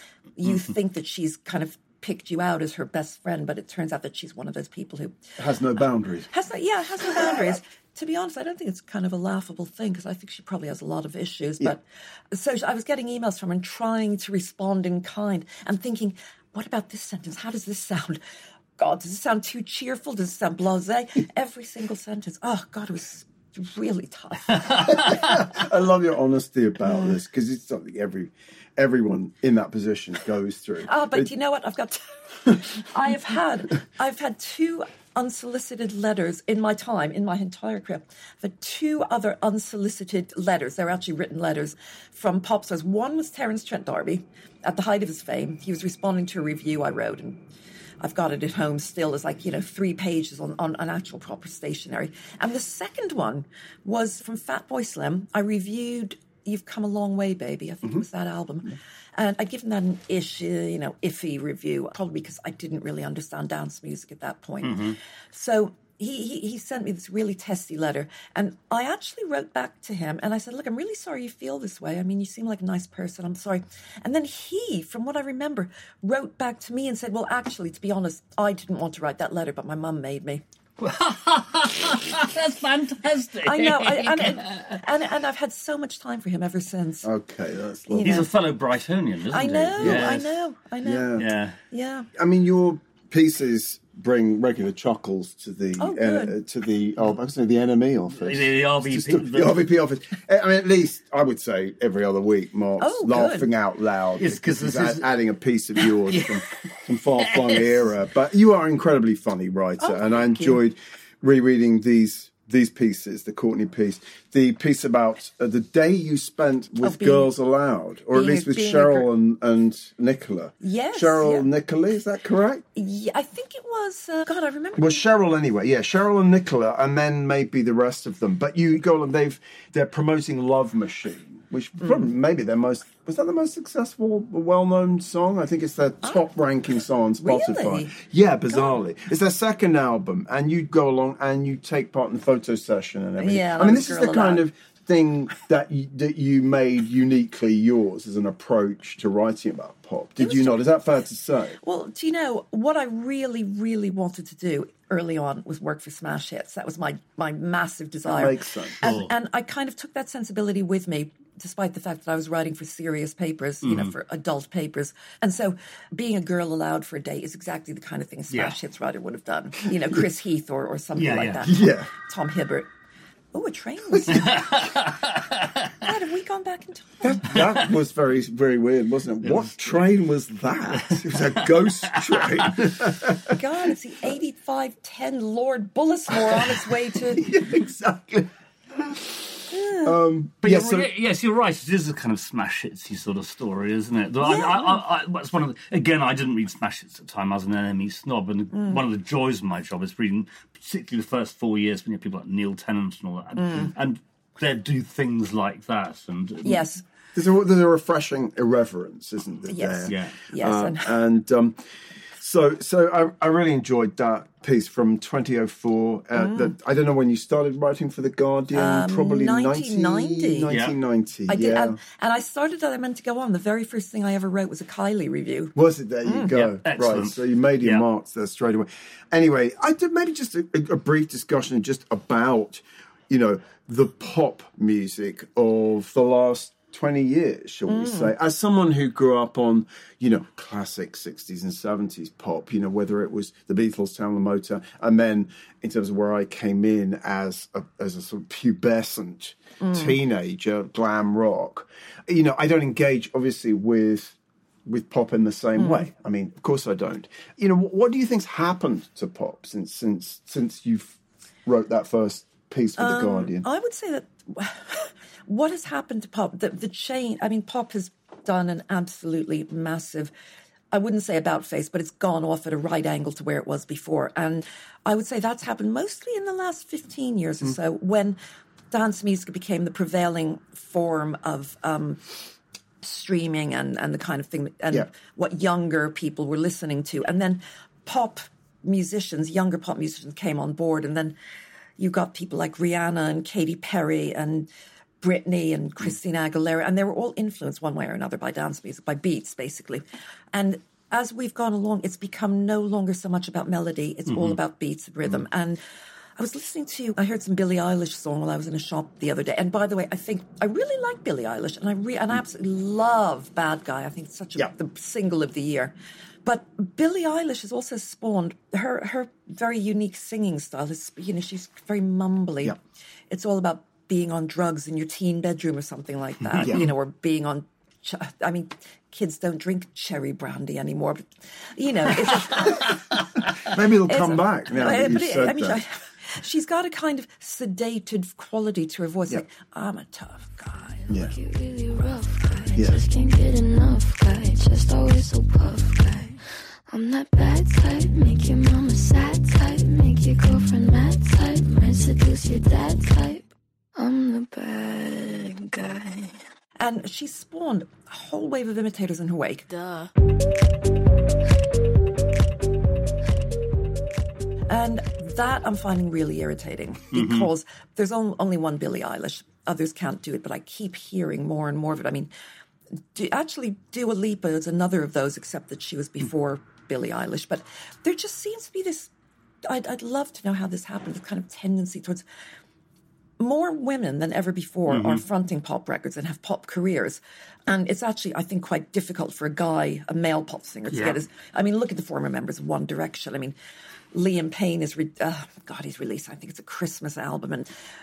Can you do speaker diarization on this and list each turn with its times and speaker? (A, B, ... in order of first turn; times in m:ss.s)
0:00.4-0:05.2 A
0:05.4-0:06.3 B
0:06.3-0:18.2 A
0:07.0-0:07.5 B
0:18.8-0:24.7 A
0:24.6-0:25.2 C
0:24.8-0:31.3 B
0:30.9-0:32.0 A
0:32.6-0:47.4 A
0:48.0-1:20.4 A
1:04.6-1:05.0 C
1:20.8-1:24.8 C
1:23.4-1:27.1 A
1:27.0-1:28.3 B
1:27.9-1:28.3 A
1:28.0-1:30.2 C
1:29.3-1:32.1 A
1:29.8-1:30.2 B
1:30.8-1:31.3 B
1:31.2-1:31.6 C
1:32.1-2:02.6 B
1:35.8-1:36.3 A
1:38.1-1:39.7 C
1:42.8-1:43.5 A
1:44.2-1:45.1 C
1:45.8-1:46.4 C
1:47.2-1:47.7 C
1:49.8-1:50.6 A
1:56.8-1:57.3 A
1:58.1-1:59.1 A
2:00.6-2:01.4 A
2:02.8-2:05.0 A
2:04.8-2:31.6 B
2:11.8-2:12.1 A
2:17.2-2:17.9 A
2:18.5-2:18.8 A
2:23.2-2:24.4 A
2:30.2-2:30.6 A
2:31.6-2:52.7 A
2:38.0-2:39.0 B
2:38.8-2:39.1 C
2:43.6-2:43.9 C
2:51.0-2:51.4 C
2:51.4-2:51.9 B
2:53.3-2:54.4 A
2:53.9-2:54.4 B
2:54.1-2:55.7 C
2:55.8-2:57.3 A
2:57.0-3:03.4 B
2:59.2-2:59.5 C
3:00.7-3:01.0 C
3:02.1-3:02.4 C
3:03.3-3:07.2 A
3:07.1-3:09.1 B
3:09.5-3:09.9 A
3:09.8-3:10.9 B
3:10.4-3:26.8 C
3:14.2-3:14.8 A
3:18.5-3:18.8 A
3:23.4-3:23.7 A
3:26.4-3:26.8 A
3:27.1-3:31.6 B
3:29.5-3:30.9 A
3:29.9-3:30.1 C
3:32.2-3:41.8 B
3:36.2-3:36.5 A
3:38.5-3:40.5 A
3:40.5-3:40.7 C
3:41.3-3:46.3 A
3:45.5-4:23.4 B
3:46.3-3:47.8 C
3:57.7-3:58.1 A
4:09.6-4:10.0 A
4:15.6-4:15.8 A
4:22.8-4:30.1 A
4:30.7-4:38.2 A
4:38.7-4:42.2 A
4:42.8-4:51.2 A
4:51.8-4:54.5 A
4:55.0-5:05.6 A
5:04.1-5:04.4 C
5:06.2-5:15.7 A
5:16.2-5:22.6 A
5:23.1-5:32.7 A
5:26.4-5:26.7 B
5:33.4-5:35.6 B
5:33.9-5:40.9 A
5:40.9-5:56.1 D
5:40.9-5:41.1 B
5:42.6-5:42.8 B
5:56.6-5:59.5 A
6:04.5-6:12.1 A
6:06.9-6:07.3 C
6:12.9-6:18.9 A
6:19.4-6:22.0 A
6:23.2-6:33.3 A
6:24.7-6:25.0 C
6:30.7-6:31.0 C
6:33.9-6:37.5 A